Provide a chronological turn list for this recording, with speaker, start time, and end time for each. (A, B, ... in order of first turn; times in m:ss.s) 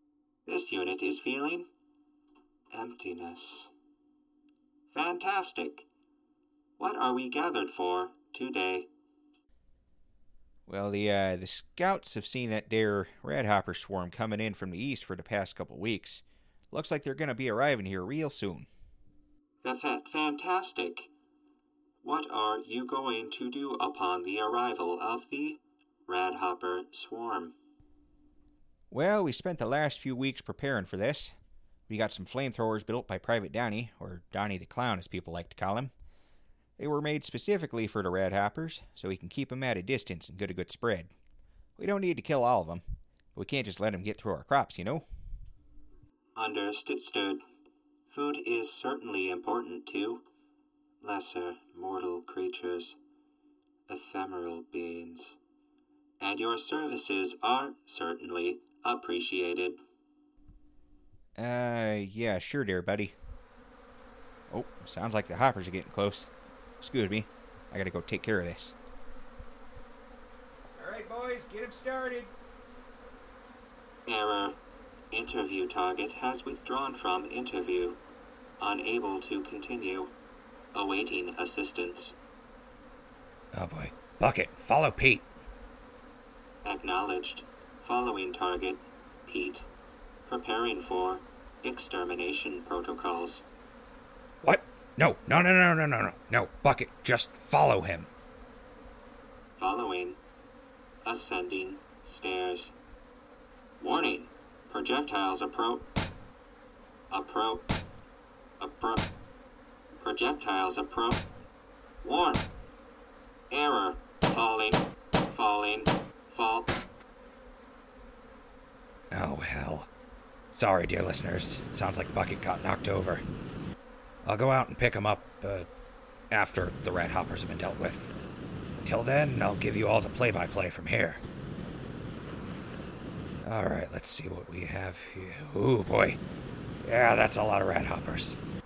0:00.5-0:01.7 A
0:02.7-0:03.7 A
0:04.9-0:05.9 A
0:06.8-0:08.9 A
0:10.7-0:18.7 B
0:19.6-0:21.1 A
0:22.0-0:27.5 A
0:28.9-0:31.4 B
0:31.9-0:35.9 B
0:36.8-0:41.1 B
0:41.8-0:45.1 B
0:46.4-0:47.4 A
0:48.1-0:50.2 A
0:51.0-0:53.0 A
0:53.9-0:55.4 A
0:56.2-0:59.8 A
1:01.4-1:03.2 B
1:04.5-1:08.8 B
1:10.7-1:12.3 B
1:14.1-1:14.6 A
1:15.1-1:18.0 A
1:18.6-1:20.1 A
1:20.7-1:22.1 A
1:23.5-1:25.3 C
1:26.6-1:29.7 A
1:30.3-1:33.4 A
1:34.4-1:38.1 C
1:39.6-1:40.2 A
1:41.0-1:42.7 A
1:43.8-1:45.9 A
1:47.1-1:47.7 A
1:48.6-1:49.1 A
1:50.0-1:51.2 A
1:52.0-1:52.5 A
1:53.5-1:56.8 A
1:59.1-1:59.9 C
2:00.5-2:03.2 C
2:04.2-2:05.7 C
2:06.3-2:08.1 C
2:08.8-2:11.2 C
2:13.4-2:16.2 C
2:16.8-2:18.4 C